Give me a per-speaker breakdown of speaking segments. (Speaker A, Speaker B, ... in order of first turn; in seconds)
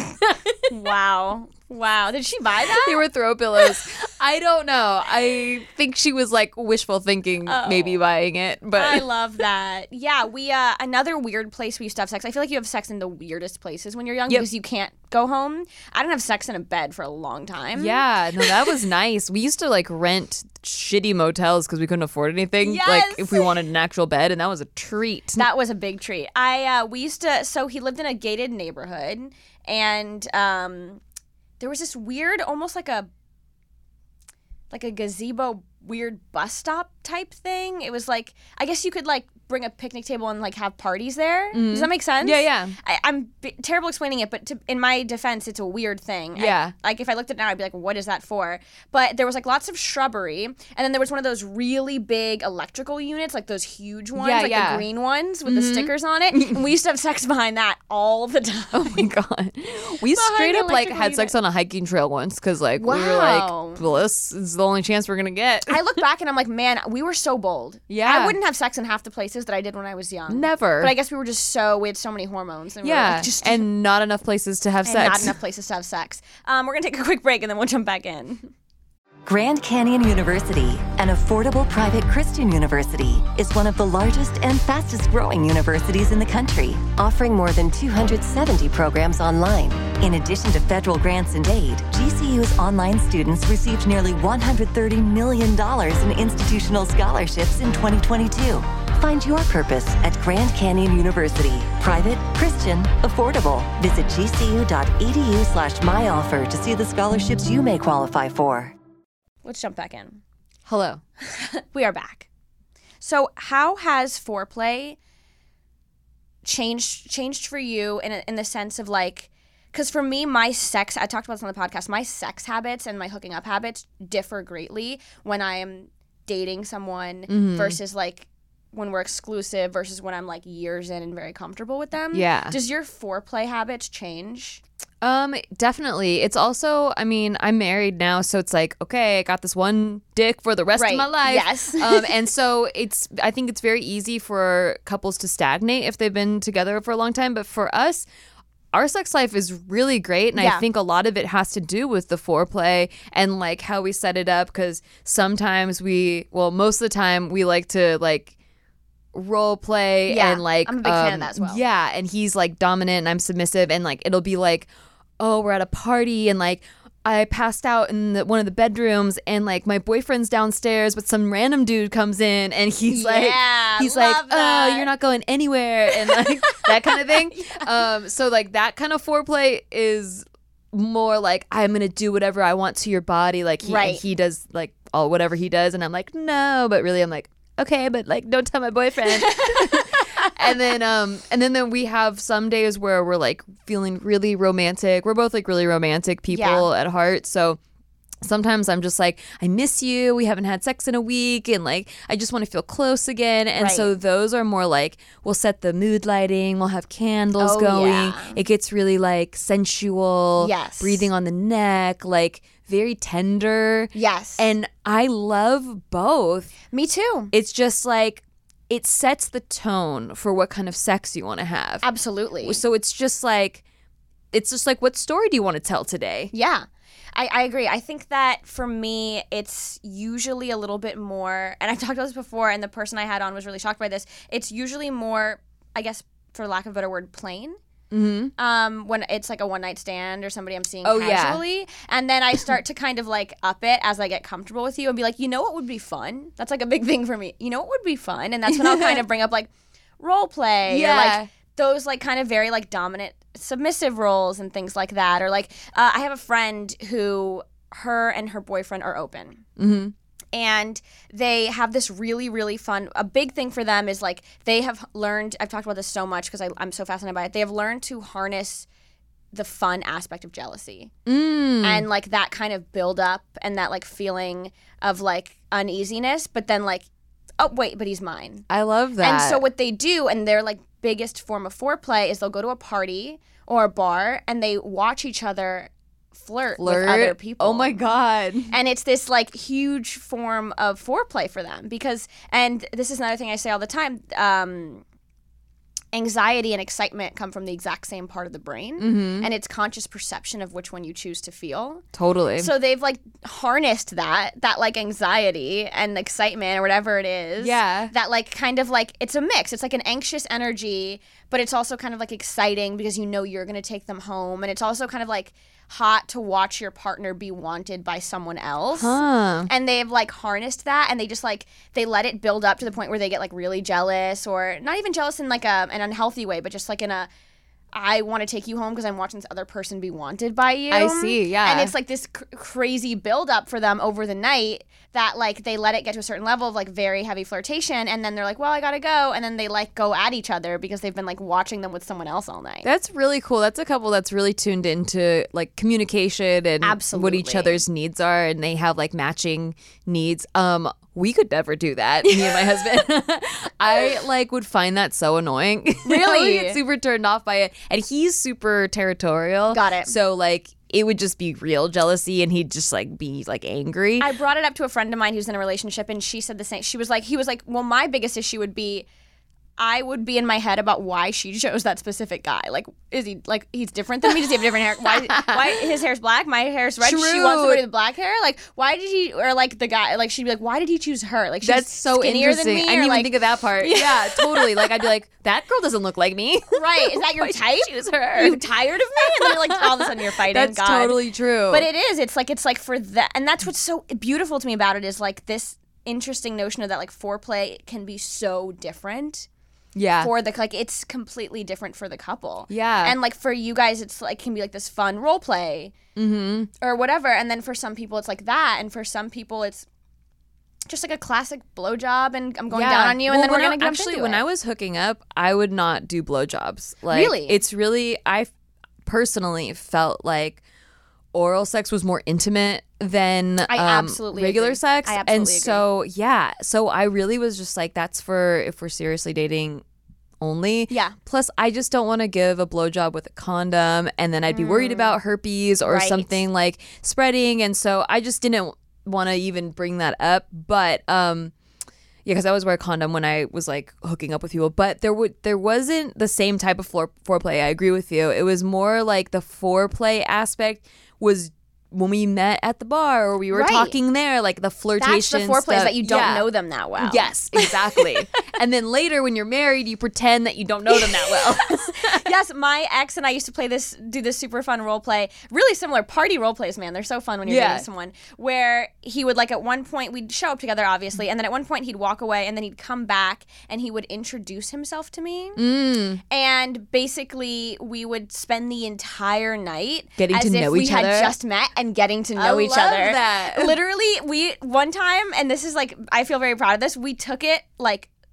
Speaker A: 0.2-0.6, 2.8-9.0, 17.7-25.4, 41.5-42.7, 46.4-46.7, 54.1-54.9, 55.5-56.6, 58.7-65.8, 67.9-68.3, 70.3-70.9, 72.8-75.3, 110.7-111.0, 127.3-127.8, 132.1-132.5, 135.0-148.1, 148.7-158.3, 159.1-197.6, 198.2-216.5, 217.3-221.8, 222.4-223.6, 224.3-226.3, 237.9-238.3, 240.8-241.4, 248.7-249.0, 250.7-251.3, 259.6-259.9, 271.1-271.9, 278.5-279.4, 286.6-288.5, 298.8-299.3, 301.9-302.5, 307.4-307.9, 318.8-319.5, 330.7-331.7, 342.6-364.1, 374.8-375.6, 376.8-377.6, 381.4-388.4, 389.0-391.7, 399.7-400.1, 402.5-403.0, 405.9-406.5, 412.5-418.3, 418.8-420.4, 421.1-429.6, 430.2-441.3, 442.0-456.3, 456.8-462.1, 467.2-467.6, 475.4-476.0, 480.0-481.1, 482.2-483.6
Speaker B: 0.7-3.0, 7.5-8.0, 8.7-18.6, 22.6-23.5, 25.4-31.0, 31.6-33.1, 34.7-59.1, 60.1-61.3, 62.8-63.8, 65.7-73.7, 74.8-78.5, 109.4-110.2, 111.2-112.3, 113.0-115.0, 116.4-134.6, 140.8-142.1, 150.3-150.6, 160.1-161.6, 172.9-174.9, 175.9-177.7, 183.6-184.0, 189.2-190.7, 196.3-196.7, 203.6-203.9, 207.4-208.4, 210.4-211.1, 213.9-214.4, 216.7-217.3, 221.8-222.6, 226.3-237.6, 238.4-259.4, 260.3-268.7, 269.3-270.9, 271.6-276.9, 277.4-278.4, 279.0-287.8, 288.5-294.8, 295.9-301.8, 302.4-327.1, 327.7-342.7, 346.6-347.6, 352.0-352.8, 353.7-353.9, 355.8-356.6, 359.5-359.9, 364.0-368.9, 369.6-384.9, 386.5-391.0, 391.5-399.3, 400.0-405.7, 406.6-409.7, 410.6-414.2, 416.9-417.4, 423.5-425.6, 430.7-430.9, 434.3-434.9, 435.6-436.2, 453.3-453.8, 454.8-458.2, 460.7-475.4, 476.1-487.9
Speaker C: 79.2-108.7